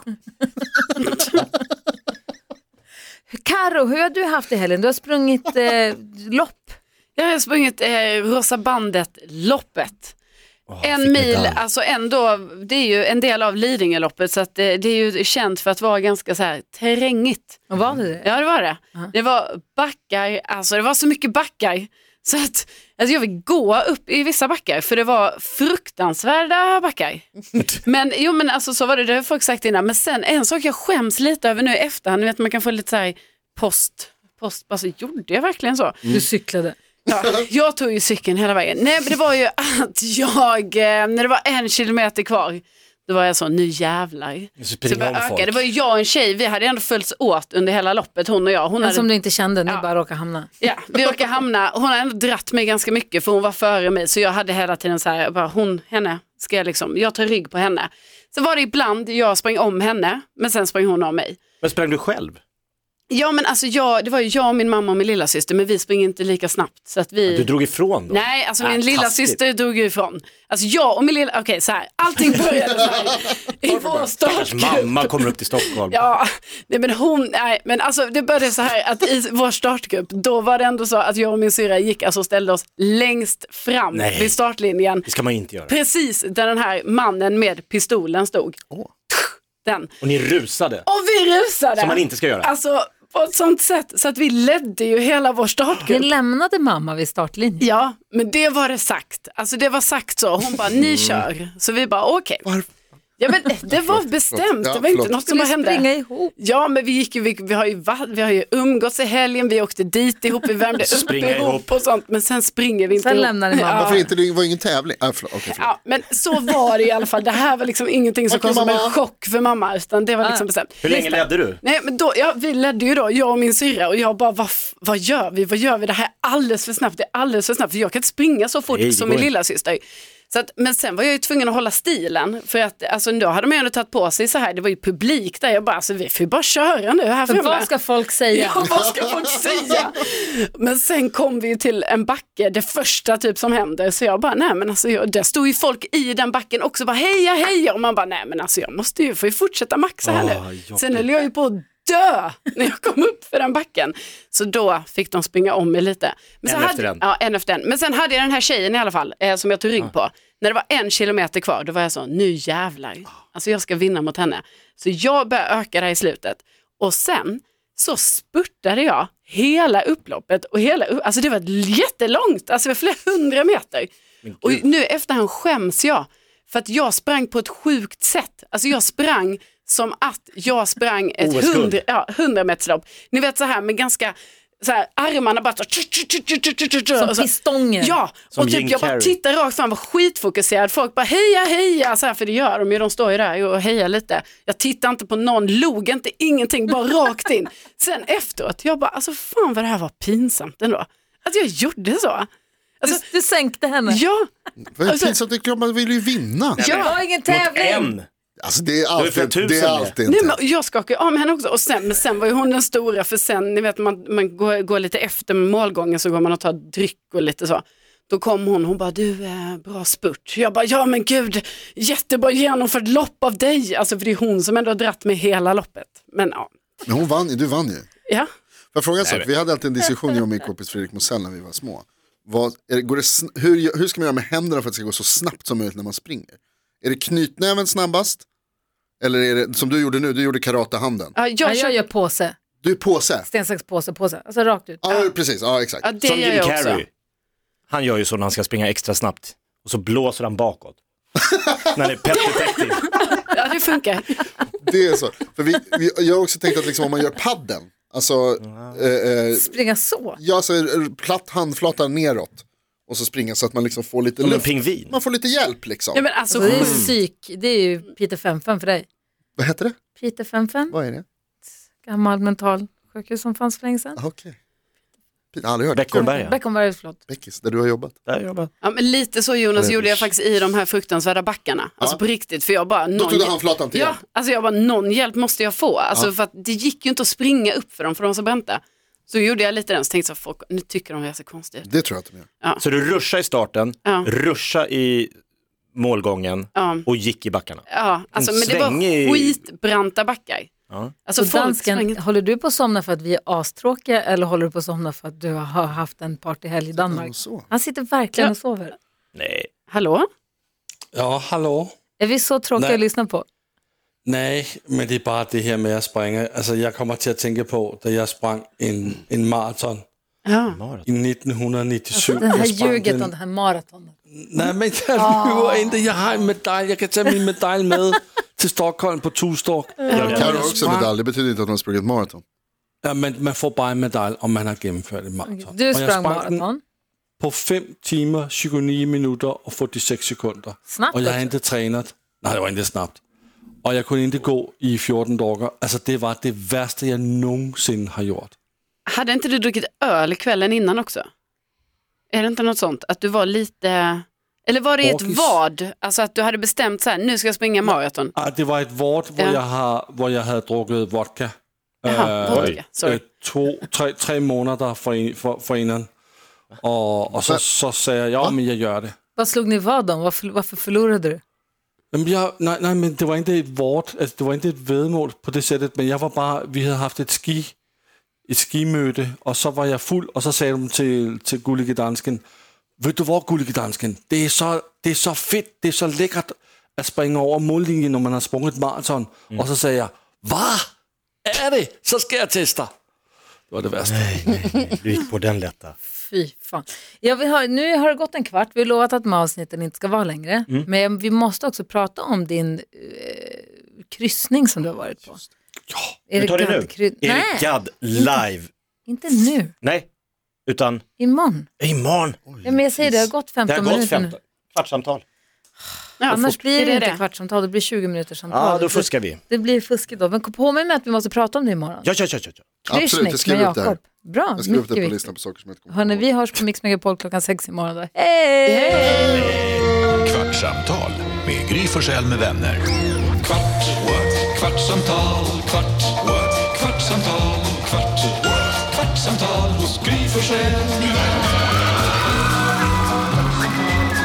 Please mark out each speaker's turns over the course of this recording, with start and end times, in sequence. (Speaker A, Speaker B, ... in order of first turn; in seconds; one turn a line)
Speaker A: 0.6-1.0
Speaker A: 3.3-6.8
Speaker B: 7.2-10.1
Speaker C: 10.7-11.6
Speaker B: 10.8-17.7
Speaker A: 17.7-18.3
Speaker B: 18.2-27.2
Speaker B: 27.8-36.2
Speaker A: 36.1-36.8
Speaker B: 37.1-49.1
Speaker C: 44.6-45.6
Speaker A: 48.8-50.5
Speaker B: 50.6-61.4
Speaker C: 61.6-62.4
Speaker B: 63.1-67.5
Speaker C: 67.3-69.4
Speaker B: 68.1-85.1
Speaker C: 74.2-76.0
Speaker C: 83.9-84.4
Speaker C: 85.0-85.7
Speaker B: 85.7-88.6
Speaker B: 89.1-90.0
Speaker C: 90.0-90.8
Speaker B: 90.8-96.1
Speaker C: 91.8-92.5
Speaker A: 95.8-97.7
Speaker B: 97.6-102.4
Speaker C: 100.7-101.2
Speaker B: 103.2-105.8
Speaker D: 103.7-105.1
Speaker A: 105.2-106.3
Speaker B: 106.4-114.0
Speaker C: 110.8-111.8
Speaker A: 112.9-114.1
Speaker D: 113.7-115.7
Speaker B: 115.5-137.7
Speaker D: 118.3-119.0
Speaker C: 120.8-121.6
Speaker C: 128.7-129.3
Speaker A: 137.3-138.6
Speaker B: 138.3-202.3
Speaker C: 150.0-151.1
Speaker C: 156.4-157.1
Speaker C: 174.2-174.6
Speaker C: 181.2-181.8
Speaker A: 186.9-188.0
Speaker C: 188.3-189.2
Speaker A: 202.8-204.0
Speaker B: 203.9-204.3
Speaker D: 204.7-206.6
Speaker B: 204.8-205.2
Speaker C: 206.5-208.1
Speaker B: 206.6-207.0
Speaker A: 206.7-207.9
Speaker D: 208.4-210.4
Speaker C: 208.9-209.9
Speaker B: 210.1-226.5
Speaker D: 226.8-227.9
Speaker D: 228.7-238.2
Speaker C: 229.0-229.3
Speaker D: 239.0-241.1
Speaker B: 241.1-241.8
Speaker A: 241.4-242.4
Speaker D: 242.6-243.3
Speaker A: 243.2-245.1
Speaker D: 244.8-245.9
Speaker B: 245.8-246.8
Speaker C: 246.0-246.9
Speaker C: 247.7-250.8
Speaker D: 251.3-251.7
Speaker C: 251.7-252.9
Speaker B: 252.6-254.1
Speaker D: 254.6-259.5
Speaker A: 259.3-260.2
Speaker D: 260.2-266.1
Speaker C: 264.2-264.9
Speaker B: 265.9-266.9
Speaker A: 266.3-268.9
Speaker C: 266.4-266.9
Speaker D: 269.4-269.8
Speaker A: 270.0-270.7
Speaker D: 270.7-271.0
Speaker A: 271.8-274.0
Speaker D: 273.9-274.4
Speaker D: 275.3-276.1
Speaker C: 275.7-276.4
Speaker A: 275.9-277.0
Speaker D: 277.1-277.9
Speaker C: 278.1-278.5
Speaker B: 278.6-291.7
Speaker C: 279.6-280.1
Speaker D: 282.9-284.0
Speaker D: 291.6-292.3
Speaker C: 292.6-295.1
Speaker C: 295.7-299.4
Speaker B: 296.5-296.9
Speaker B: 297.7-300.5
Speaker B: 301.0-302.0
Speaker A: 301.2-308.8
Speaker D: 306.8-307.5
Speaker C: 309.1-309.5
Speaker B: 309.7-310.1
Speaker E: 310.9-311.7
Speaker A: 312.0-313.2
Speaker E: 312.6-312.8
Speaker E: 314.0-319.8
Speaker B: 320.2-320.6
Speaker C: 320.5-320.9
Speaker E: 320.8-323.1
Speaker A: 321.9-325.9
Speaker E: 324.1-330.9
Speaker C: 329.9-330.4
Speaker D: 330.1-332.2
Speaker E: 332.8-336.4
Speaker A: 335.2-336.6
Speaker E: 337.2-343.0
Speaker A: 340.7-341.3
Speaker E: 343.6-348.3
Speaker B: 348.9-351.1
Speaker B: 352.1-358.1
Speaker E: 354.8-355.4
Speaker E: 358.1-365.9
Speaker B: 361.9-363.1
Speaker C: 362.2-362.6
Speaker E: 366.5-368.9
Speaker A: 369.1-371.2
Speaker E: 371.9-377.5
Speaker E: 378.3-382.2
Speaker E: 382.8-390.7
Speaker E: 391.2-392.7
Speaker E: 393.5-394.4
Speaker C: 393.9-395.7
Speaker A: 395.9-405.2
Speaker A: 406.1-408.2
Speaker C: 406.1-408.5
Speaker A: 408.9-409.5
Speaker C: 409.6-409.9
Speaker C: 410.5-410.8
Speaker A: 411.0-411.5
Speaker C: 411.6-412.2
Speaker D: 412.3-413.1
Speaker A: 412.4-414.1
Speaker C: 413.5-415.0
Speaker B: 416.0-417.0
Speaker A: 416.1-421.9
Speaker C: 418.3-419.2
Speaker C: 421.8-422.4
Speaker D: 422.6-423.8
Speaker A: 422.7-425.1
Speaker D: 424.4-426.0
Speaker A: 425.7-429.3
Speaker B: 428.5-429.2
Speaker C: 429.1-429.8
Speaker F: 429.9-432.7
Speaker F: 433.3-437.3
Speaker E: 433.3-433.7
Speaker E: 435.1-435.9
Speaker E: 436.5-438.0
Speaker E: 438.6-441.0
Speaker F: 438.8-439.2